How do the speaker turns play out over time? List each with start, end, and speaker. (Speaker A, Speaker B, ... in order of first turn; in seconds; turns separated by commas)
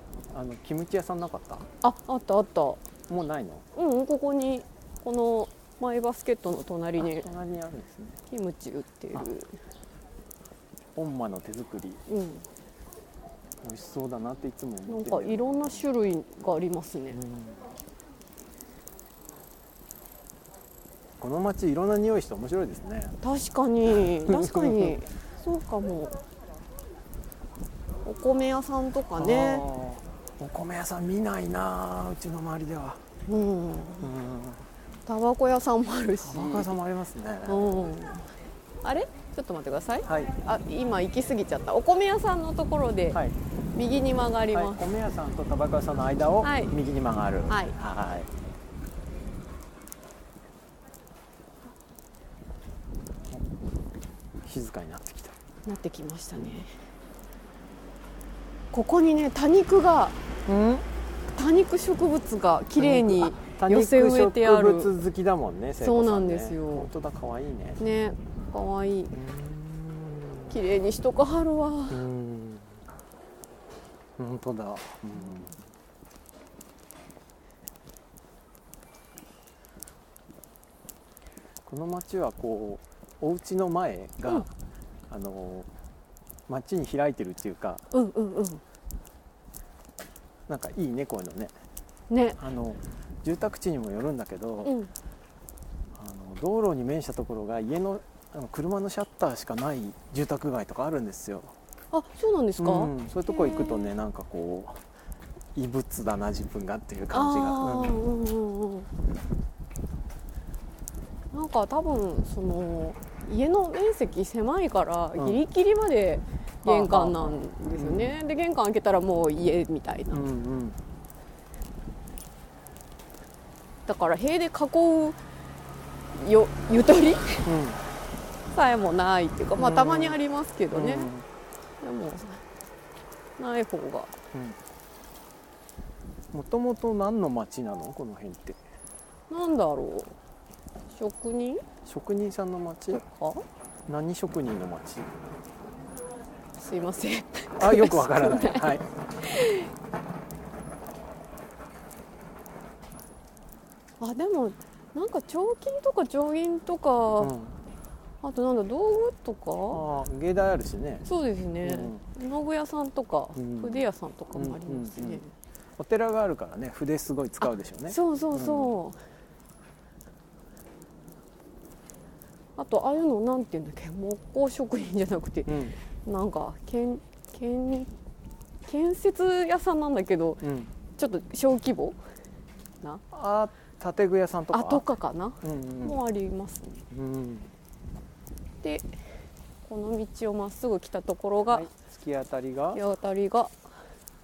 Speaker A: 0.3-1.7, Speaker B: 1.8-2.8, Speaker A: 3.1-3.6, Speaker B: 3.7-7.3, Speaker A: 7.0-8.2, Speaker B: 8.3-9.5, Speaker A: 11.0-12.0, Speaker B: 12.1-12.5, Speaker A: 13.6-15.8, Speaker B: 14.9-17.2, Speaker A: 17.1-17.7, Speaker A: 21.2-23.2, Speaker B: 23.2-26.1, Speaker A: 24.1-25.0, Speaker B: 28.1-29.6, Speaker A: 29.2-33.0, Speaker B: 33.3-34.1, Speaker A: 34.0-34.7, Speaker B: 35.1-36.7, Speaker A: 36.2-37.7, Speaker B: 37.5-38.3, Speaker B: 38.8-43.2, Speaker A: 40.0-40.3, Speaker B: 43.7-44.8, Speaker A: 44.5-48.3, Speaker B: 46.4-46.8, Speaker B: 47.5-47.8, Speaker A: 54.5-55.4, Speaker B: 55.7-56.7, Speaker B: 58.7-60.2, Speaker A: 60.5-60.9, Speaker B: 61.4-64.9, Speaker A: 62.8-67.8, Speaker B: 65.8-66.9, Speaker B: 67.8-69.2, Speaker A: 69.1-70.6, Speaker B: 70.5-72.0, Speaker A: 71.9-72.8, Speaker A: 74.2-75.6, Speaker A: 81.7-84.5, Speaker A: 85.1-85.7, Speaker A: 86.5-87.8, Speaker B: 87.9-88.6, Speaker A: 90.5-91.5, Speaker B: 92.1-92.4, Speaker A: 92.4-94.8, Speaker B: 94.6-94.9, Speaker A: 96.0-101.5, Speaker B: 101.9-103.9, Speaker A: 102.6-104.8, Speaker A: 105.5-108.0, Speaker B: 107.1-108.9, Speaker B: 111.3-120.3, Speaker A: 115.2-115.4, Speaker A: 116.6-118.2, Speaker A: 120.1-120.8, Speaker B: 123.9-125.2, Speaker B: 126.1-127.6, Speaker A: 127.5-127.8, Speaker B: 128.5-131.1, Speaker A: 129.6-130.2, Speaker A: 130.7-131.3, Speaker B: 131.8-132.4, Speaker B: 133.4-134.1, Speaker A: 134.3-134.6, Speaker A: 136.3-138.6, Speaker B: 139.3-140.1, Speaker B: 140.9-141.6, Speaker A: 141.9-143.0, Speaker B: 142.9-143.4, Speaker A: 143.9-145.4, Speaker B: 146.6-149.7, Speaker A: 147.6-148.8, Speaker B: 154.0-157.3, Speaker A: 157.2-157.6, Speaker B: 158.2-159.8, Speaker A: 159.7-161.1, Speaker B: 161.1-165.3, Speaker A: 161.6-162.0, Speaker A: 163.4-165.2, Speaker A: 165.8-168.8, Speaker B: 167.4-169.0, Speaker B: 172.6-177.9, Speaker A: 175.5-175.8, Speaker B: 178.7-182.0, Speaker A: 180.4-180.7, Speaker A: 183.1-184.8, Speaker B: 184.5-186.8, Speaker A: 185.4-186.0, Speaker A: 186.9-187.5, Speaker B: 188.6-188.9, Speaker B: 189.6-191.7, Speaker A: 191.5-192.8, Speaker B: 192.7-193.5